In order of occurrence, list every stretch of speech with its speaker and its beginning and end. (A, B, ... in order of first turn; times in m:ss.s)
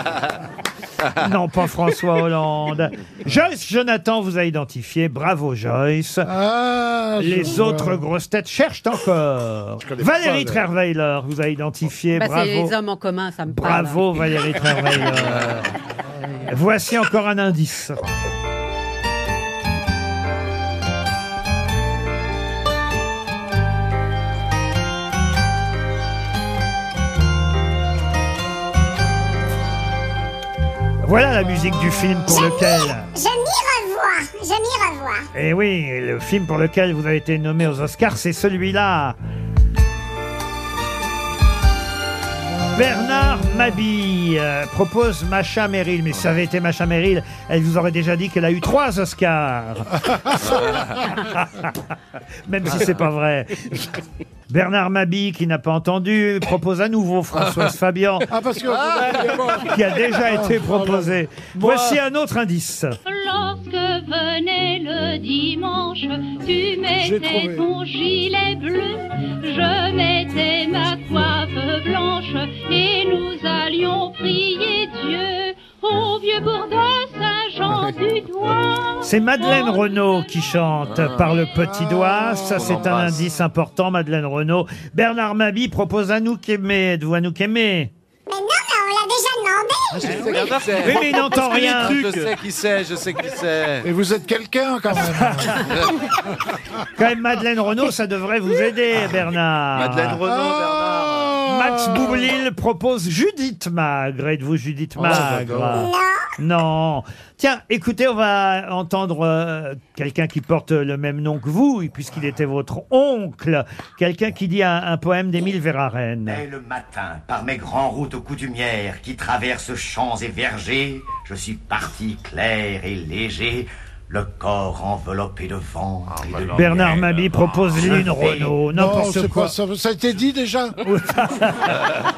0:01.2-0:06.3 A
0:06.2-0:08.1 B
0:07.2-0:12.7 A
0:09.8-0:10.7 B
0:12.1-0:14.1 C
0:13.5-0:15.7 A
0:16.4-0:18.0 A
0:31.0-0:33.1 A
0:32.3-0:35.3 D
0:35.3-0:39.2 A
0:42.7-0:51.7 A
0:52.5-0:53.8 A
0:54.5-0:58.3 A
0:58.3-1:02.0 B
0:59.6-1:02.9 A
1:03.0-1:21.6 E
1:07.0-1:07.7 B
1:19.0-1:27.9 A
1:20.9-1:21.2 F
1:21.5-1:23.1 B
1:22.6-1:23.2 F
1:28.3-1:30.3 D
1:30.0-1:33.9 F
1:30.1-1:32.2 A
1:33.8-1:35.7 B
1:35.1-1:35.6 A
1:37.0-1:40.2 A
1:39.7-1:41.4 F
1:40.2-1:42.3 B
1:41.5-1:56.4 A
1:45.0-1:45.9 B
1:45.7-1:46.2 D
1:56.2-2:06.9 G
2:06.1-2:07.9 F
2:06.5-2:09.5 A
2:08.7-2:10.8 B
2:10.8-2:11.8 A